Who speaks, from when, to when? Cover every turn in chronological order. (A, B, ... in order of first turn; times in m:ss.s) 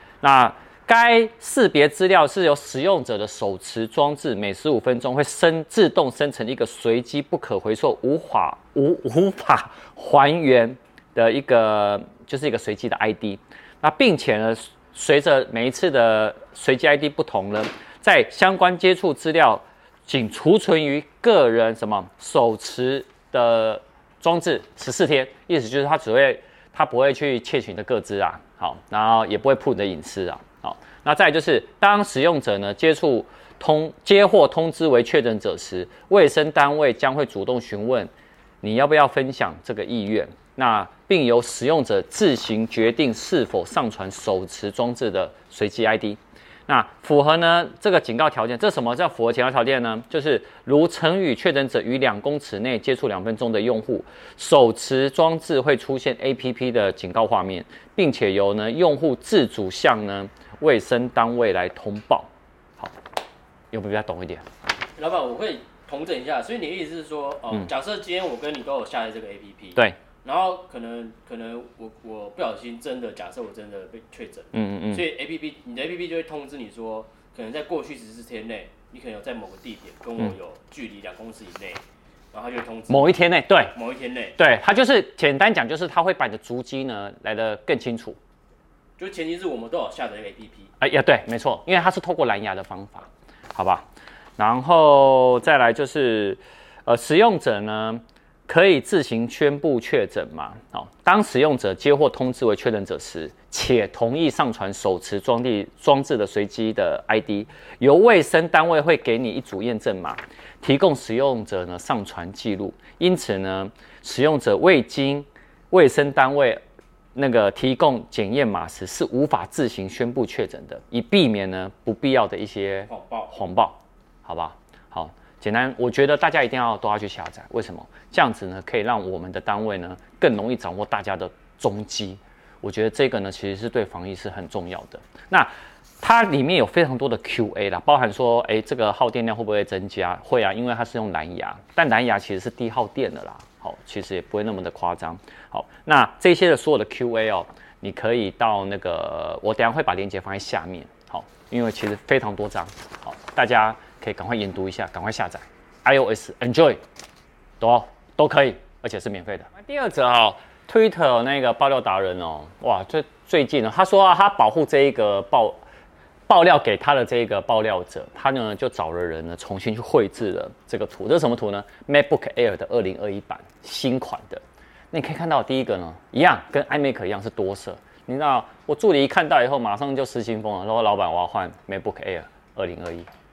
0:00.2-0:38.1 A
0:38.6-1:03.0 A
1:03.7-1:04.5 A
1:05.0-1:23.2 B
1:14.5-1:15.1 A
1:22.9-1:23.8 A
1:23.7-1:24.4 B
1:24.4-1:28.2 A
1:29.0-1:30.7 B
1:30.8-1:33.8 A
1:34.4-1:56.6 A
1:57.2-2:15.5 A
2:02.9-2:03.3 B
2:16.0-2:36.8 A
2:37.6-2:45.6 A
2:46.3-3:03.1 A